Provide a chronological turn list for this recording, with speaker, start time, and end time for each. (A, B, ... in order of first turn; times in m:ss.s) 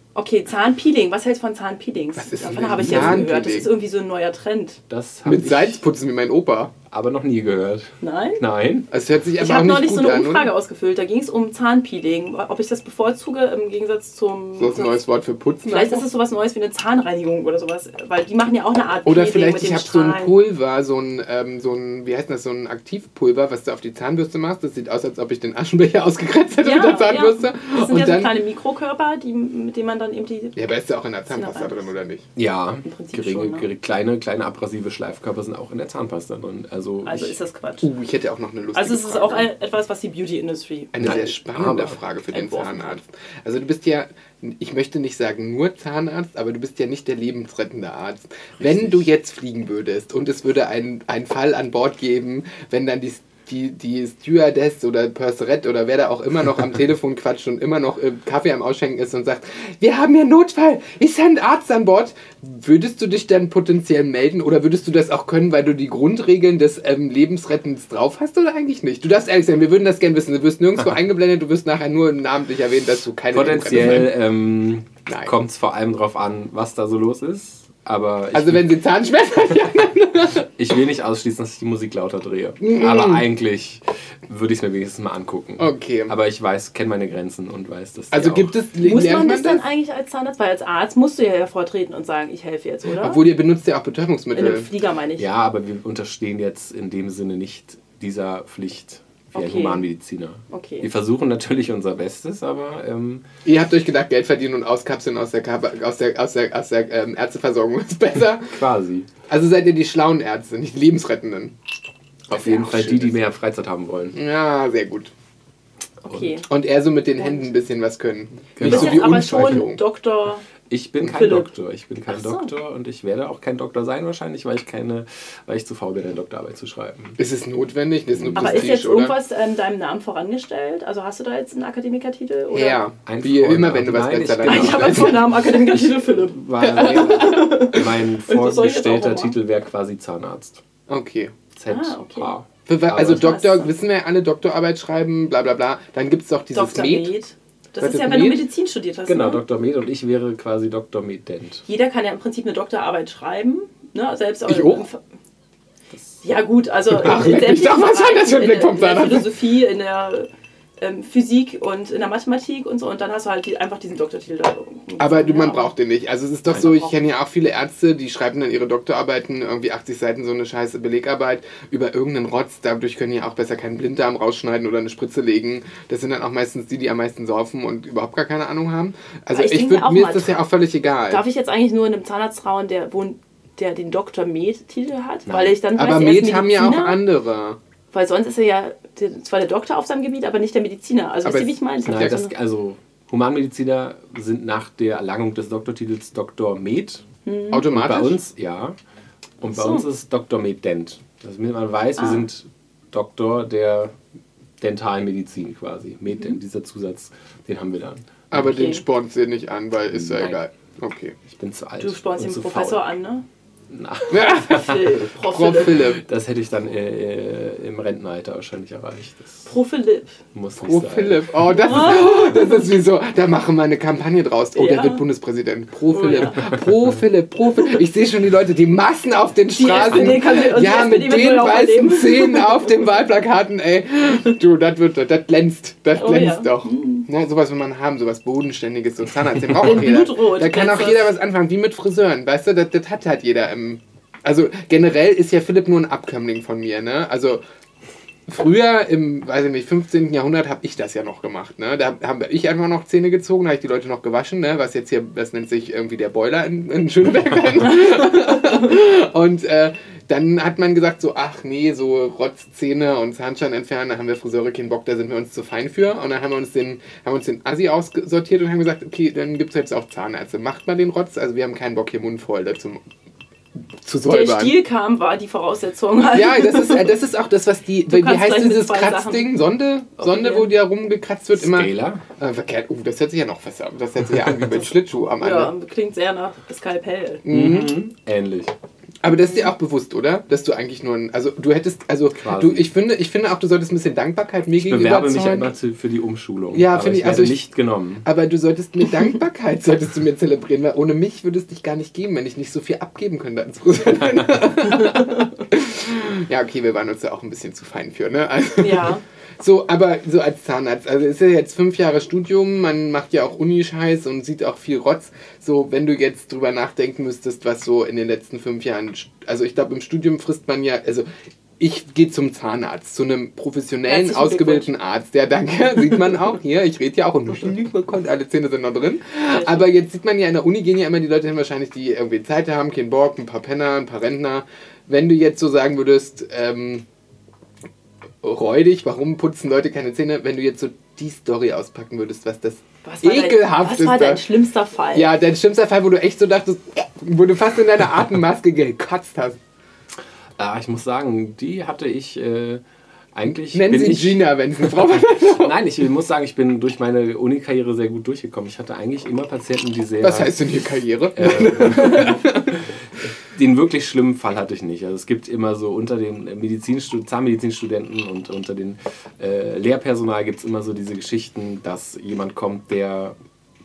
0:00.1-0:04.8 A
0:02.2-0:03.7 B
0:02.7-0:03.3 C
0:04.9-0:05.8 C
0:05.2-0:06.7 B
0:06.9-0:08.9 C
0:08.0-0:08.4 A
0:08.9-0:10.5 B
0:09.4-0:15.0 A
0:14.6-0:16.1 B
0:15.7-0:20.3 A
0:19.0-0:28.3 B
0:26.6-0:30.6 A
0:30.5-0:32.3 B
0:31.3-0:31.9 A
0:32.4-0:37.4 C
0:32.8-0:33.7 A
0:37.0-0:37.9 A
0:37.8-0:39.5 B
0:38.7-0:41.3 A
0:40.9-1:14.2 B
0:41.0-0:42.0 C
0:42.3-0:43.0 A
0:48.6-0:49.0 C
1:13.3-1:18.7 C
1:18.3-1:20.5 B
1:20.4-1:28.5 C
1:22.6-1:23.2 B
1:25.6-1:26.1 B
1:28.1-1:29.6 B
1:28.8-1:33.2 A
1:33.0-1:34.7 B
1:34.3-1:35.3 A
1:35.2-1:43.2 C
1:39.3-1:39.8 A
1:40.5-1:40.9 A
1:43.4-1:48.5 B
1:48.5-1:49.1 C
1:49.3-1:51.6 B
1:52.3-1:53.2 B
1:52.3-1:54.2 C
1:54.1-1:55.1 B
1:56.0-1:56.4 A
1:56.1-1:56.4 C
1:56.4-1:59.8 B
1:57.2-1:57.5 A
1:58.6-1:59.6 C
1:58.6-2:00.4 A
2:00.7-2:07.2 C
2:01.0-2:01.5 A
2:02.1-2:02.5 A
2:07.2-2:09.2 B
2:08.1-2:08.7 C
2:08.3-2:12.8 A
2:12.5-2:15.3 B
2:13.0-2:20.6 C
2:14.4-2:19.4 A
2:16.6-2:17.8 B
2:20.9-2:21.3 B
2:21.6-2:23.4 C
2:21.7-2:22.3 A
2:22.7-2:27.1 B
2:23.0-2:23.7 A
2:26.5-2:29.4 A
2:27.8-2:28.4 B
2:29.0-2:31.6 C
2:31.6-2:35.0 A
2:34.4-2:34.9 B
2:36.2-2:45.7 A
2:36.9-2:39.3 B
2:45.0-3:01.2 B
2:46.6-2:46.9 A
2:59.3-3:00.4 A
3:01.1-3:07.0 A
3:05.3-3:05.6 C
3:05.7-3:07.6 B
3:07.9-3:12.3 A
3:11.2-3:12.1 B
3:11.8-3:17.0 C
3:17.2-3:17.6 A
3:17.5-3:18.2 B
3:17.7-3:18.8 C
3:19.4-3:23.9 C
3:19.5-3:19.8 A
3:22.0-3:22.2 A
3:24.6-3:28.1 C
3:28.3-3:31.1 B
3:28.3-3:28.8 A
3:29.9-3:30.4 C
3:31.3-3:32.8 C
3:31.8-3:33.2 A
3:33.7-3:34.9 C
3:34.1-3:36.0 B
3:34.2-3:35.8 A
3:35.8-3:39.5 C
3:39.5-3:40.2 A
3:40.3-3:41.3 C
3:40.6-4:07.4 B
3:41.6-3:42.1 A
3:44.5-3:45.0 A
3:45.9-3:46.5 A
3:49.6-3:52.7 A
3:49.8-3:50.2 C
3:56.0-3:57.1 A
3:59.6-4:01.1 A
4:08.3-4:32.8 B
4:33.8-4:34.6 B
4:34.0-4:36.9 A
4:36.1-4:45.5 B
4:37.9-4:39.3 A
4:40.0-4:40.5 A
4:41.4-4:42.0 C
4:45.2-4:47.2 A
4:47.2-4:47.8 B
4:47.3-4:48.5 C
4:49.0-4:55.5 B
4:52.1-4:52.7 C
4:54.6-4:58.0 C
4:56.5-4:57.5 B
4:58.0-5:21.1 B
5:08.6-5:09.0 A
5:21.6-5:36.8 B
5:23.9-5:24.7 A
5:29.3-5:29.6 A
5:38.2-5:44.2 B
5:42.8-5:45.1 A
5:44.9-5:49.4 B
5:50.4-5:52.6 C
5:53.1-6:00.3 C
5:53.5-5:55.6 B
6:00.0-6:02.6 B
6:01.2-6:02.6 C
6:03.3-6:13.2 C